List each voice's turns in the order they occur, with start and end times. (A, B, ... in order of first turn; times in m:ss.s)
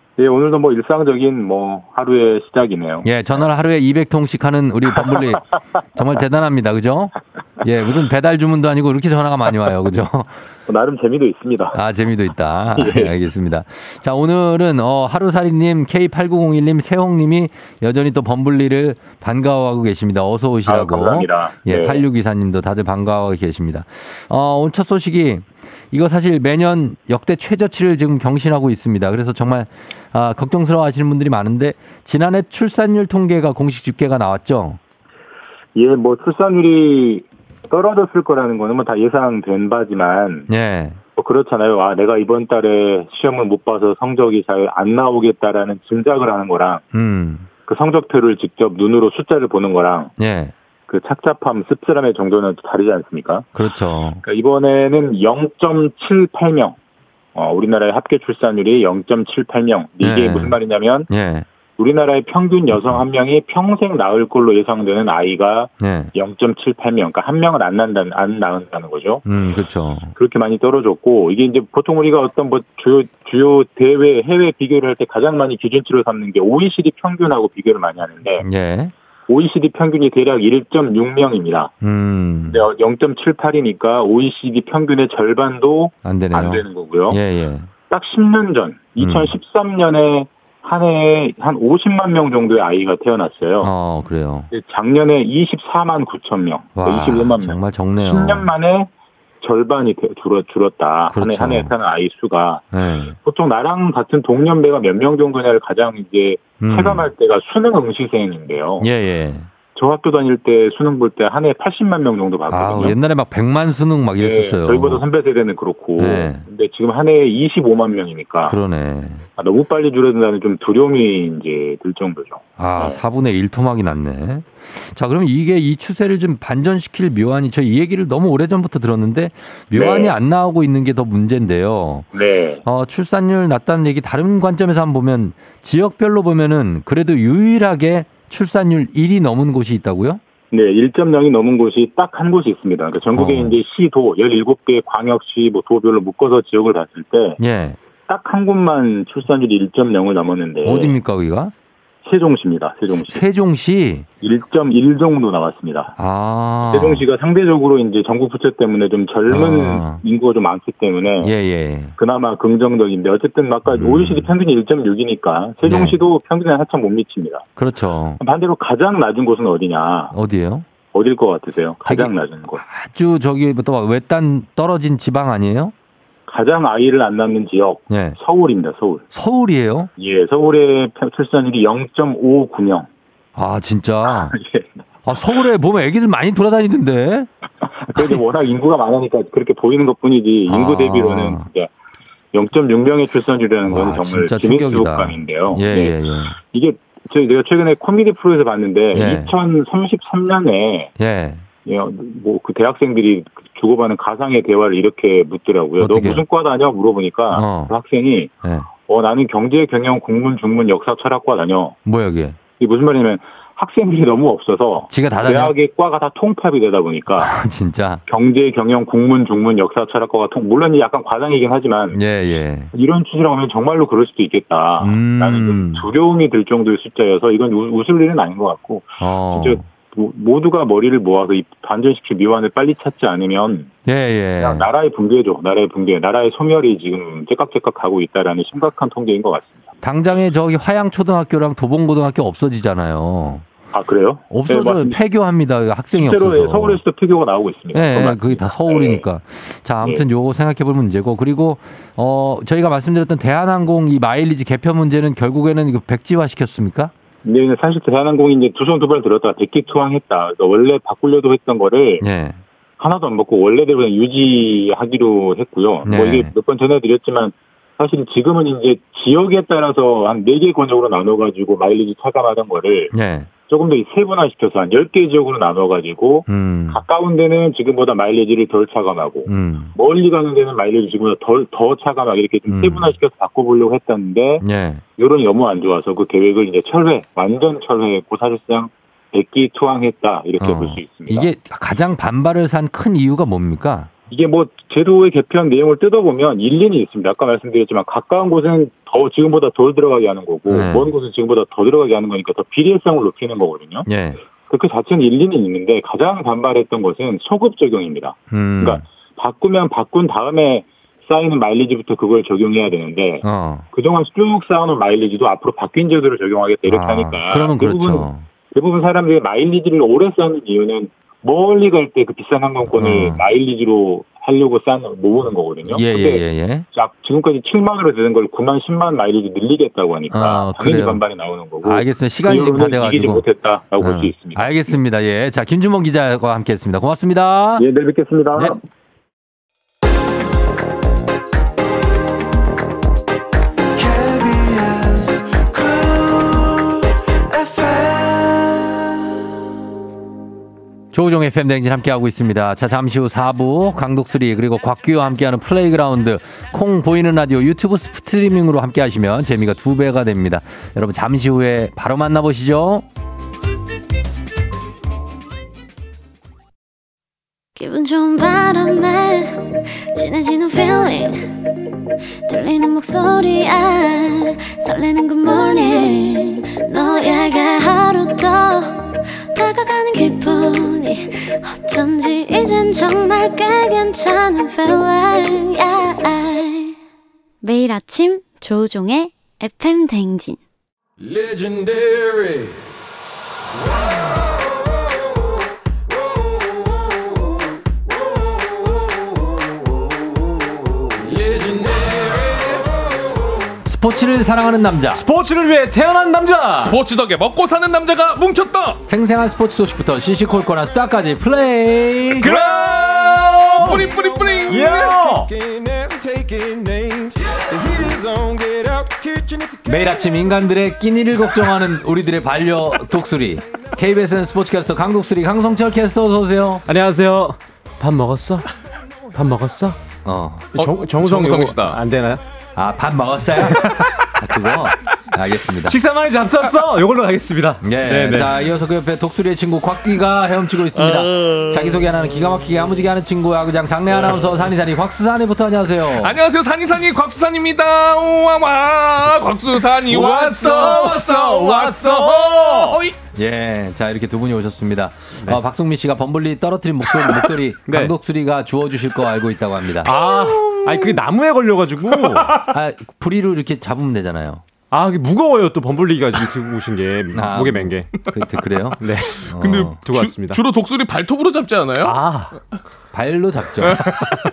0:00.2-0:03.1 A
0:03.0-0:05.4 B
0:06.0-0:10.3 B
0:10.7-0:11.8 A
0:11.7-0:34.8 B
0:12.8-0:13.1 A
0:20.7-0:22.0 A
0:35.8-0:40.5 A
0:40.5-0:41.0 B
0:41.2-0:46.8 A
0:46.9-0:47.5 B
0:47.7-0:50.1 A
0:50.2-0:50.5 B
0:50.9-0:53.5 A
0:53.6-0:54.2 B
0:54.2-0:56.8 A
0:57.4-1:01.1 A
1:00.0-1:00.6 B
1:01.1-1:01.5 B
1:01.8-1:09.2 A
1:02.7-1:03.0 B
1:05.8-1:06.1 B
1:09.2-1:10.1 B
1:10.2-1:18.5 A
1:18.4-1:18.9 B
1:19.3-1:21.7 A
1:21.8-1:22.6 B
1:22.5-1:27.2 A
1:26.0-1:27.7 B
1:27.9-1:33.7 A
1:29.0-1:29.3 B
1:33.6-1:34.5 B
1:34.5-1:38.9 A
1:36.8-1:38.5 B
1:39.4-1:42.6 A
1:41.1-1:41.7 B
1:42.7-1:43.2 B
1:43.2-1:48.9 A
1:46.6-1:47.1 B
1:48.8-1:49.5 B
1:49.8-1:53.0 A
1:52.5-1:55.0 B
1:54.2-1:58.6 A
1:56.0-1:56.4 B
1:58.4-1:59.2 B
1:59.4-2:03.0 A
2:02.6-2:12.1 B
2:09.7-2:10.2 A
2:12.1-2:12.6 A
2:12.6-2:20.2 B
2:20.5-2:27.4 A
2:23.1-2:23.6 B
2:27.4-2:27.8 B
2:28.1-2:31.0 A
2:30.6-2:31.5 B
2:32.0-2:33.2 A
2:33.1-2:34.1 B
2:34.2-2:36.0 A
2:36.0-2:37.0 B
2:36.7-2:41.3 A
2:39.3-2:40.0 B
2:41.2-2:41.9 B
2:42.0-2:47.5 A
2:43.8-2:44.3 B
2:45.6-2:46.0 B
2:47.6-2:48.2 B
2:48.2-2:50.1 A
2:50.1-2:50.7 B
2:50.9-2:52.6 A
2:51.8-2:55.7 B
2:56.3-2:59.0 A
2:57.9-2:58.2 B
2:59.1-2:59.9 B
3:00.0-3:02.9 A
3:03.4-3:04.4 B
3:04.1-3:04.6 A
3:05.1-3:07.3 B
3:07.9-3:11.7 A
3:10.5-3:11.5 B
3:12.3-3:20.9 A
3:13.7-3:16.4 B
3:18.9-3:19.3 B
3:21.0-3:21.4 B
3:21.6-3:31.8 A
3:25.8-3:26.2 B
3:27.3-3:27.7 B
3:28.4-3:28.7 B
3:31.8-3:32.4 B
3:32.6-3:37.3 A
3:34.9-3:35.5 B
3:37.2-3:38.0 B
3:38.1-3:42.0 A
3:41.9-3:42.7 B
3:42.7-3:53.7 A
3:44.8-3:45.8 B
3:49.0-3:49.6 B
3:53.9-3:54.7 B
3:54.4-3:59.7 A
3:59.8-4:03.5 B
4:03.7-4:05.0 A
4:04.3-4:06.8 B
4:05.9-4:09.1 A
4:07.7-4:16.9 B
4:17.2-4:22.0 A
4:22.0-4:22.4 B
4:22.8-4:32.9 A
4:25.8-4:26.3 B
4:32.9-4:33.3 B
4:33.5-4:44.4 A
4:36.3-4:36.8 B
4:39.3-4:39.7 B
4:42.5-4:43.0 B
4:44.4-4:44.8 B
4:45.0-4:51.3 A
4:50.4-4:53.9 B
4:54.1-5:03.9 A
5:00.5-5:00.9 B
5:03.9-5:04.2 B
5:04.5-5:34.5 A
5:08.3-5:08.8 B
5:13.2-5:13.6 B
5:16.7-5:18.2 B
5:22.8-5:23.2 B
5:25.7-5:26.7 B
5:30.1-5:31.0 B
5:31.6-5:33.2 B
5:33.8-5:37.6 B
5:37.6-5:38.6 A
5:43.8-5:48.9 C
5:50.9-6:02.8 B
6:07.6-6:11.4 D
6:12.3-6:26.8 D
6:27.4-6:30.4 D
6:31.0-6:32.5 C
6:41.0-6:42.8 C
6:43.7-6:45.0 B
6:44.9-6:46.8 E
6:46.6-6:48.8 F
6:48.8-6:52.4 B
6:52.2-6:54.0 E
6:52.2-6:55.0 F
6:52.9-6:53.2 C
6:53.8-7:00.2 C
6:54.5-6:55.3 E
6:59.7-7:06.6 B
7:06.7-7:08.5 E
7:09.1-7:09.8 E
7:10.0-7:10.5 B
7:10.5-7:12.2 E
7:10.6-7:11.8 F
7:12.6-7:15.8 B
7:13.4-7:14.0 E
7:15.6-7:18.3 E
7:17.6-7:26.2 B
7:20.8-7:21.5 F
7:25.9-7:33.0 F
7:29.8-7:32.8 E
7:30.0-7:30.3 B
7:33.2-7:39.9 B
7:37.7-7:37.9 E
7:39.8-7:42.3 E
7:39.9-7:41.0 F
7:41.9-7:42.5 F
7:42.5-7:44.4 B
7:44.7-7:47.9 E
7:47.2-7:49.8 B
7:48.8-7:49.2 E
7:48.9-7:52.0 F
7:49.8-7:50.4 E
7:51.8-7:52.4 E
7:52.9-7:53.8 B
7:53.6-7:54.1 F